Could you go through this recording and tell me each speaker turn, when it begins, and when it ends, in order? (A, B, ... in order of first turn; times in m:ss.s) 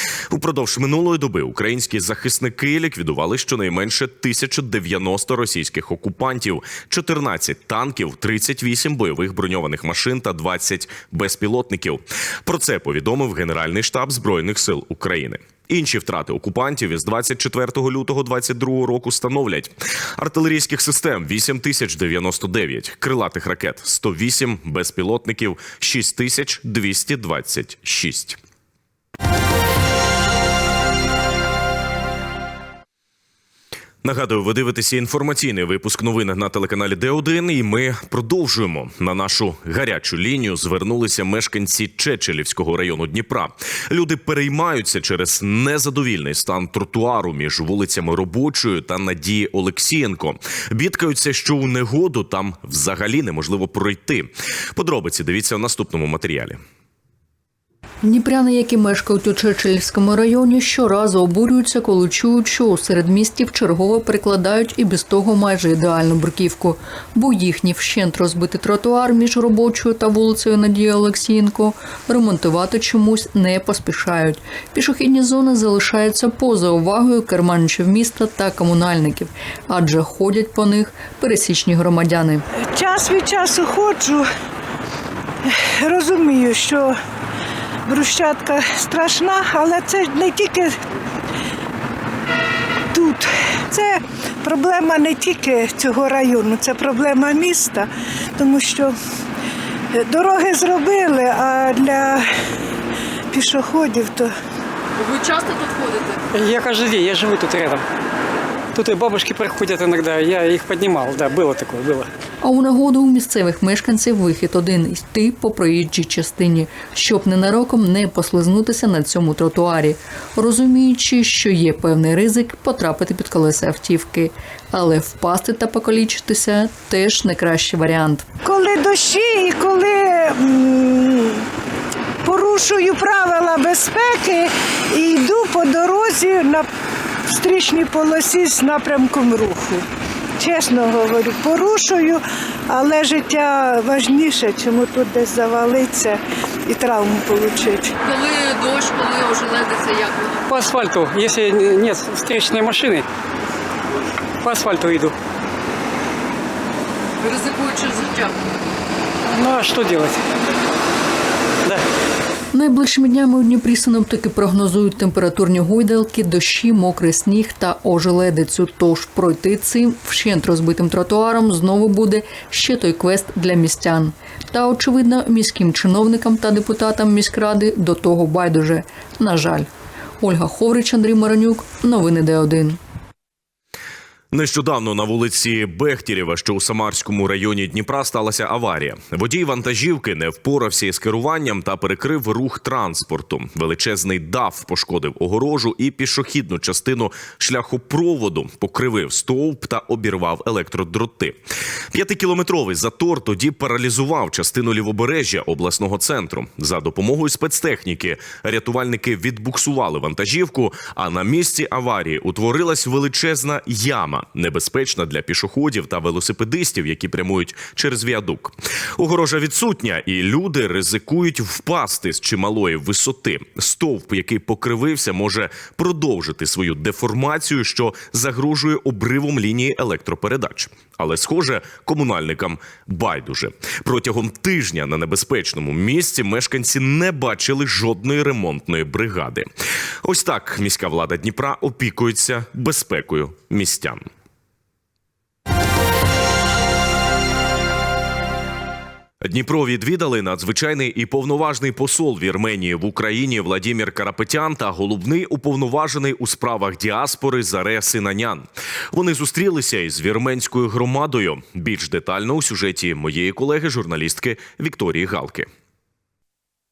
0:00.3-0:28.4 A
0:34.0-0:56.6 A
0:58.0-1:22.4 B
1:22.6-1:24.3 C
1:25.4-1:27.0 C
1:27.8-1:30.8 C
1:32.9-1:39.0 C
1:39.9-1:42.2 C
1:43.3-1:44.3 C
1:45.1-1:46.1 D
1:46.3-1:47.8 E
1:48.7-1:52.1 E
1:52.4-2:08.2 B
2:08.4-2:11.4 C
2:12.2-2:16.7 C
2:17.3-2:19.8 C
2:20.4-2:28.0 C
2:28.1-2:30.4 D
2:30.4-2:33.0 E
2:34.4-2:35.1 E
2:37.2-2:38.3 D
2:39.3-2:40.2 E
2:42.5-2:59.7 B
3:00.2-3:02.8 B
3:04.3-3:21.4 A
3:21.9-3:59.5 A
4:00.0-4:04.0 A
4:09.2-4:25.5 A